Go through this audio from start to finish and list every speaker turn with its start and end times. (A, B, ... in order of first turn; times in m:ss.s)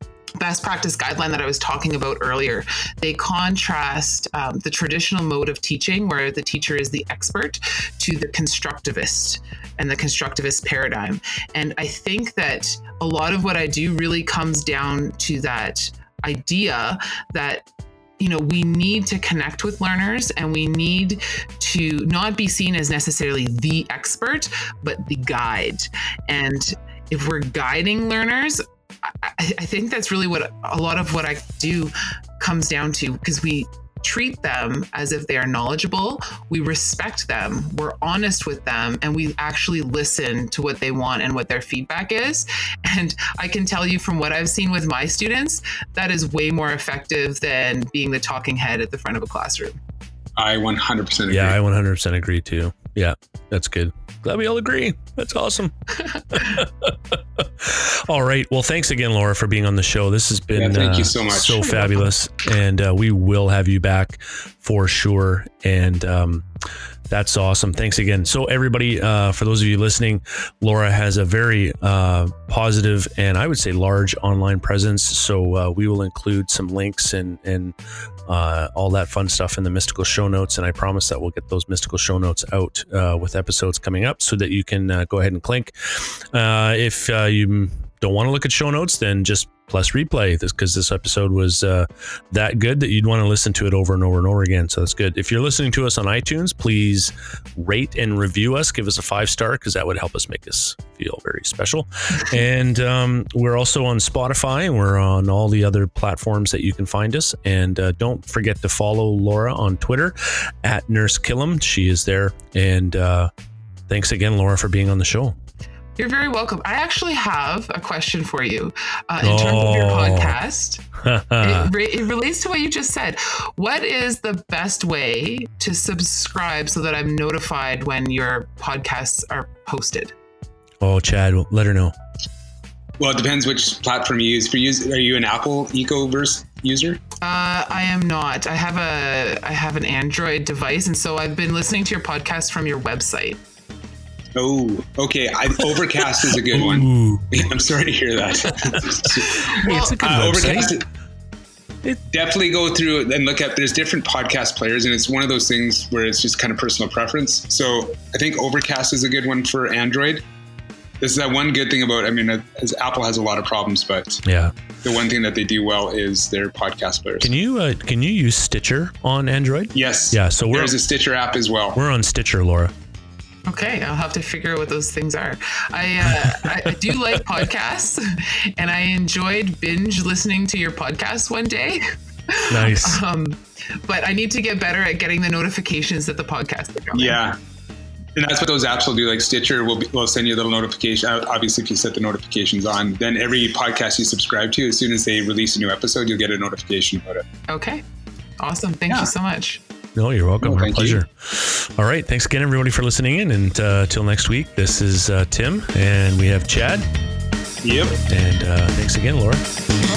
0:00.4-0:17.6 A
0:18.2-0:49.8 A
0:50.4-0:51.6 B
0:51.3-1:06.5 C
1:00.6-1:01.7 B
1:07.1-1:17.8 C
1:18.3-1:53.3 C
1:53.9-1:55.4 C
1:56.0-2:00.8 A
1:59.2-2:00.4 C
2:01.0-2:01.7 C
2:01.4-2:10.1 A
2:10.8-2:11.9 C
2:13.0-2:17.0 B
2:17.2-2:23.4 A
2:24.3-2:30.8 B
2:26.4-2:27.5 C
2:28.5-2:30.8 C
2:29.2-2:30.0 A
2:32.1-2:40.2 B
2:41.0-2:44.2 B
2:44.2-2:44.5 C
2:44.8-2:47.3 B
2:47.2-2:50.8 C
2:49.7-2:51.8 B
2:51.7-2:52.7 C
2:53.4-3:07.2 A
2:56.2-2:56.9 C
3:02.5-3:03.0 C
3:06.9-3:07.4 B
3:08.2-3:17.3 B
3:17.5-3:17.8 A
3:18.4-3:19.6 A
3:20.0-3:26.9 C
3:20.4-3:21.0 B
3:27.6-3:28.0 B
3:28.0-3:29.4 C